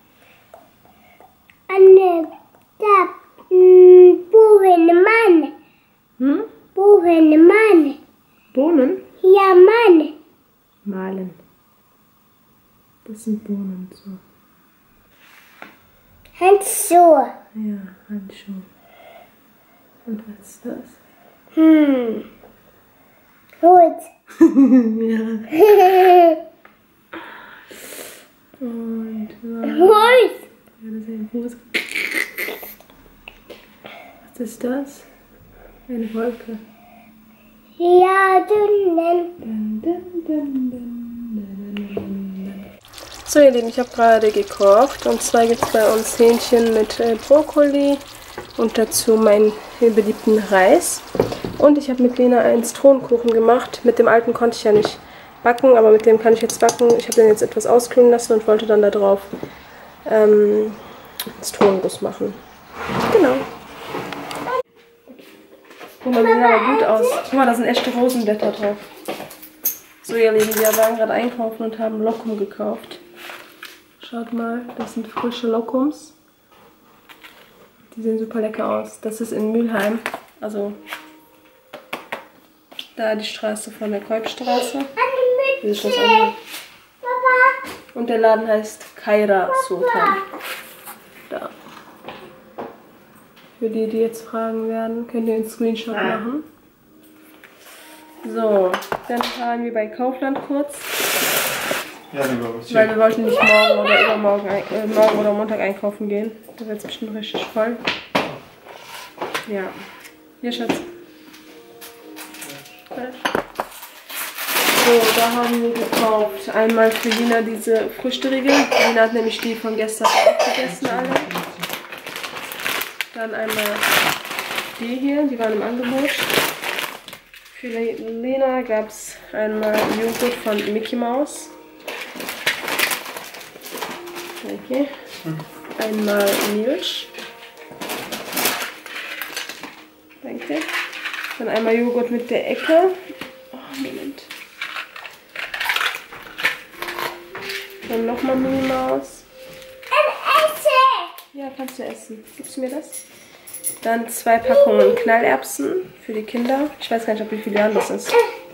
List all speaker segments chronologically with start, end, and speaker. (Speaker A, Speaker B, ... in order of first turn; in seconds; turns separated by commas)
Speaker A: 1.7-5.5, Speaker B: 6.2-6.5, Speaker A: 6.7-8.0, Speaker B: 8.5-9.0, Speaker A: 9.2-10.1, Speaker B: 10.8-11.4, Speaker B: 13.0-14.2, Speaker A: 16.4-17.3, Speaker B: 17.5-18.6, Speaker B: 20.1-20.9, Speaker A: 21.6-22.2, Speaker A: 23.6-24.1, Speaker B: 24.4-25.4, Speaker A: 25.5-26.4, Speaker B: 28.6-30.2, Speaker A: 29.7-30.4, Speaker B: 30.8-31.8, Speaker B: 34.2-35.1, Speaker B: 35.9-36.6, Speaker A: 37.8-39.3, Speaker B: 39.4-42.7, Speaker B: 43.3-48.0, Speaker B: 48.6-51.0, Speaker B: 51.6-59.3, Speaker B: 60.0-60.8, Speaker B: 61.4-62.4, Speaker B: 63.1-63.5, Speaker B: 66.0-68.9, Speaker A: 66.2-67.2, Speaker B: 70.0-73.0, Speaker B: 74.0-76.1, Speaker B: 77.9-80.8, Speaker B: 83.0-84.9, Speaker A: 85.0-86.3, Speaker B: 85.6-86.3, Speaker A: 87.0-87.6, Speaker B: 87.9-90.2, Speaker A: 89.7-90.2, Speaker B: 93.6-96.5, Speaker C: 95.9-96.2, Speaker B: 98.2-100.9, Speaker C: 102.1-102.9, Speaker B: 102.7-107.8, Speaker B: 109.5-109.7, Speaker B: 110.4-110.8, Speaker B: 112.9-113.2, Speaker B: 114.7-121.3, Speaker C: 120.6-121.7, Speaker B: 123.1-123.9, Speaker B: 124.8-126.3, Speaker B: 127.5-131.5, Speaker B: 134.4-134.9, Speaker B: 135.8-137.1, Speaker B: 140.2-140.7, Speaker B: 141.4-142.9, Speaker B: 143.5-144.3, Speaker B: 147.9-149.2, Speaker A: 149.9-151.1, Speaker B: 151.3-153.0, Speaker B: 153.8-158.2, Speaker A: 154.5-155.0